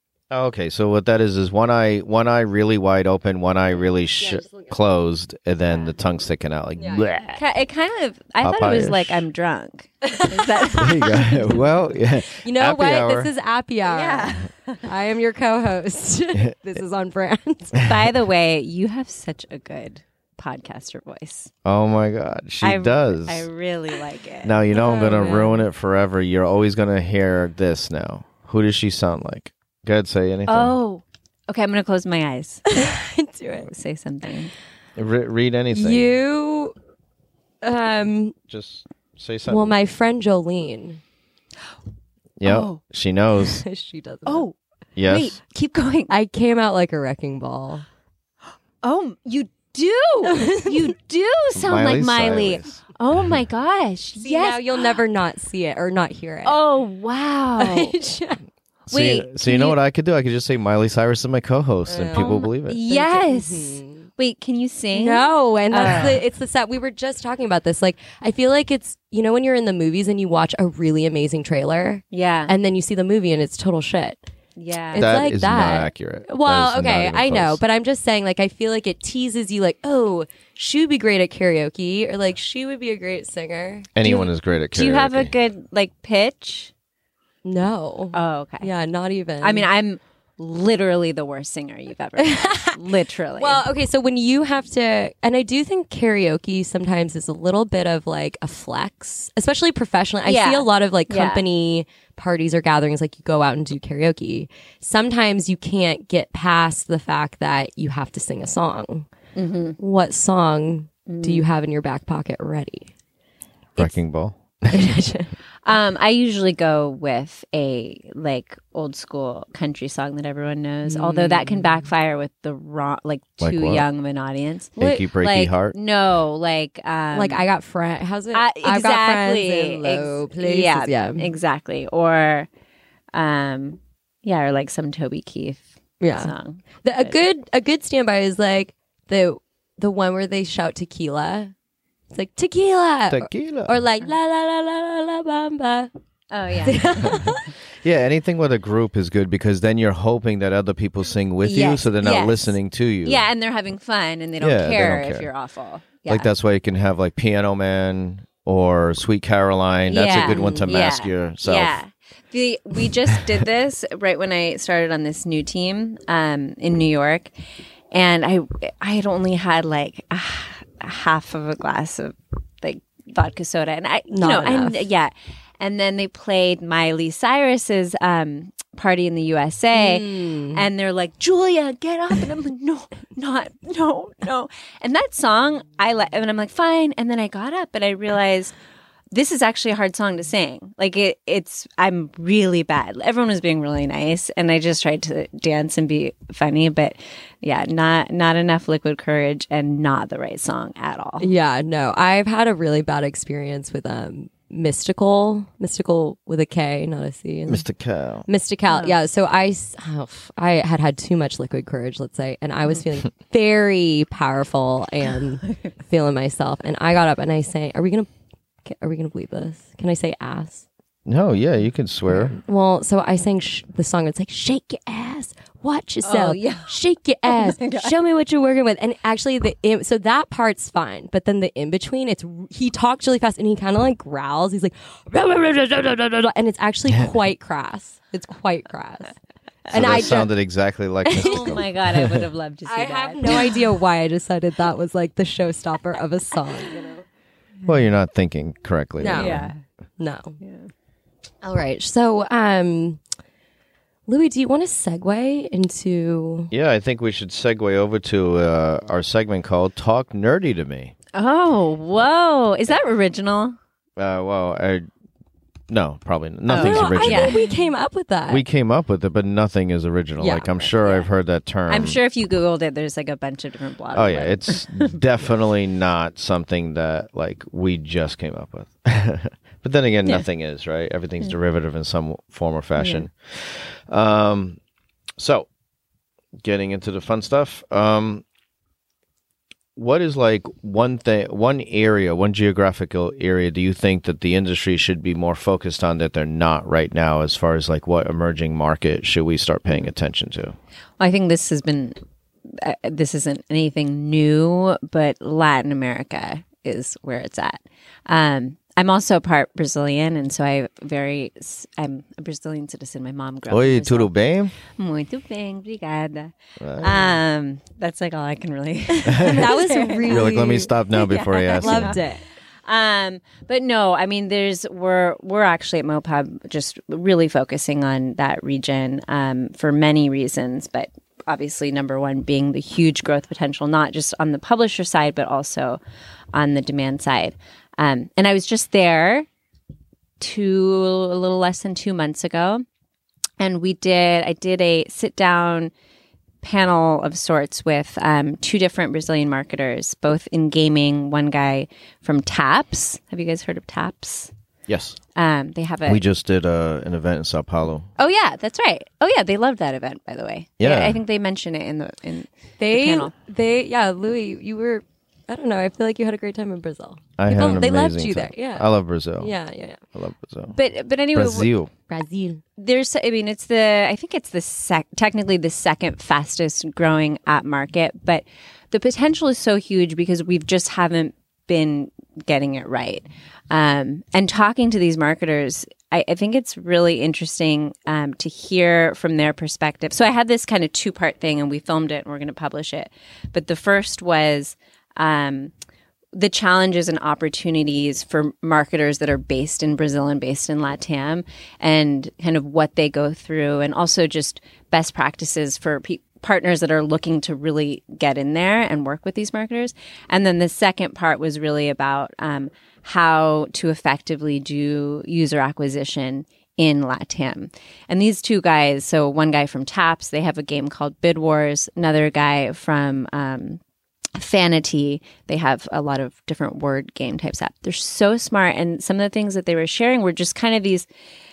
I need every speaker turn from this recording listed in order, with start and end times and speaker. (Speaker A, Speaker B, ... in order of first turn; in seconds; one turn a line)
Speaker A: 0.3-7.4
Speaker B: 4.2-4.8
Speaker B: 6.8-7.1
Speaker C: 7.4-11.4
Speaker A: 8.4-9.2
Speaker B: 10.0-11.7
Speaker A: 10.7-13.3
Speaker B: 12.2-17.8
Speaker C: 13.8-14.9
Speaker A: 17.8-18.1
Speaker C: 17.8-21.5
Speaker A: 21.6-23.5
Speaker C: 22.6-24.6
Speaker A: 24.4-30.8
Speaker B: 24.7-25.6
Speaker C: 30.5-32.9
Speaker B: 32.7-33.7
Speaker C: 33.7-34.5
Speaker A: 35.0-36.1
Speaker B: 35.7-36.7
Speaker B: 37.6-38.4
Speaker A: 38.5-39.7
Speaker B: 39.5-41.0
Speaker A: 42.4-43.6
Speaker C: 42.4-42.8
Speaker B: 43.6-44.5
Speaker C: 44.2-44.5
Speaker A: 45.0-45.4
Speaker C: 45.1-46.1
Speaker B: 46.1-47.9
Speaker C: 48.8-55.0
Speaker B: 50.3-50.9
Speaker A: 51.5-52.8
Speaker B: 54.2-56.6
Speaker C: 56.5-58.0
Speaker B: 57.6-58.4
Speaker A: 58.9-62.8
Speaker C: 58.9-59.8
Speaker B: 61.9-64.1
Speaker C: 62.1-66.2
Speaker B: 64.9-74.2
Speaker C: 72.1-72.5
Speaker C: 74.6-75.1
Speaker B: 74.9-84.2
Speaker A: 75.0-77.6
Speaker A: 84.0-85.3
Speaker C: 84.0-86.7
Speaker B: 87.5-89.7
Speaker C: 88.1-88.7
Speaker C: 89.4-93.6
Speaker B: 92.2-92.8
Speaker B: 93.4-109.1
Speaker C: 100.2-101.4
Speaker C: 109.3-109.8
Speaker B: 109.8-112.9
Speaker C: 111.1-111.5
Speaker A: 113.8-115.0
Speaker B: 114.7-115.3
Speaker C: 115.6-127.4
Speaker B: 120.9-121.8
Speaker A: 123.4-123.9
Speaker A: 124.8-125.8
Speaker B: 127.1-131.3
Speaker C: 128.3-132.5
Speaker C: 133.1-137.2
Speaker B: 136.0-141.5
Speaker B: 142.1-145.9
Speaker A: 143.1-143.8
Speaker C: 146.3-147.3
Speaker B: 146.6-147.5
Speaker A: 147.1-153.2
Speaker C: 151.4-156.3
Speaker A: 154.4-155.3
Speaker A: 156.1-161.8
Speaker C: 159.9-167.3
Speaker B: 160.2-160.7
Speaker C: 167.9-188.6
Speaker B: 174.1-174.9
Speaker B: 179.7-180.6
Speaker C: 189.1-201.3
Speaker B: 201.2-207.6
Speaker A: 207.5-208.3
Speaker B: 208.3-218.1
Speaker C: 208.7-208.9
Speaker B: 218.6-220.6
Speaker A: 221.1-222.4
Speaker B: 222.2-239.1
Speaker C: 226.0-226.7
Speaker C: 227.3-227.9
Speaker B: 239.7-240.3
Speaker A: 239.7-242.2
Speaker B: 241.1-241.6
Speaker C: 241.2-243.6
Speaker B: 242.7-247.1
Speaker A: 247.7-249.5
Speaker B: 249.0-249.4
Speaker C: 249.1-249.6
Speaker B: 250.0-250.4
Speaker C: 250.4-250.7
Speaker B: 251.4-253.0
Speaker B: 254.1-256.5
Speaker A: 256.5-260.9
Speaker C: 261.1-263.6
Speaker A: 264.0-264.9
Speaker A: 265.7-267.4
Speaker C: 266.5-267.6
Speaker B: 266.5-268.4
Speaker A: 268.3-272.0
Speaker B: 270.2-270.6
Speaker C: 270.8-271.1
Speaker C: 271.7-275.0
Speaker A: 273.9-284.6
Speaker C: 282.8-283.1
Speaker A: 285.2-285.5
Speaker A: 286.4-288.2
Speaker A: 289.8-300.6
Speaker C: 301.0-302.0
Speaker C: 302.5-320.3
Speaker A: 313.5-314.5
Speaker A: 316.6-317.2
Speaker B: 318.9-320.7
Speaker A: 319.1-319.5
Speaker A: 320.1-321.9
Speaker C: 320.9-322.0
Speaker B: 321.6-322.2
Speaker C: 322.6-335.8
Speaker C: 336.3-339.3
Speaker C: 340.2-342.6
Speaker C: 343.4-345.7
Speaker C: 346.4-354.3
Speaker A: 354.7-355.0
Speaker C: 355.1-356.0
Speaker A: 355.9-357.9
Speaker C: 358.0-363.1
Speaker A: 360.6-361.0
Speaker B: 362.6-369.8
Speaker A: 367.2-369.3
Speaker A: 369.9-370.6
Speaker C: 370.5-371.5
Speaker A: 371.1-371.7
Speaker B: 371.9-372.4
Speaker C: 372.6-395.5
Speaker C: 396.1-423.6
Speaker C: 424.1-430.9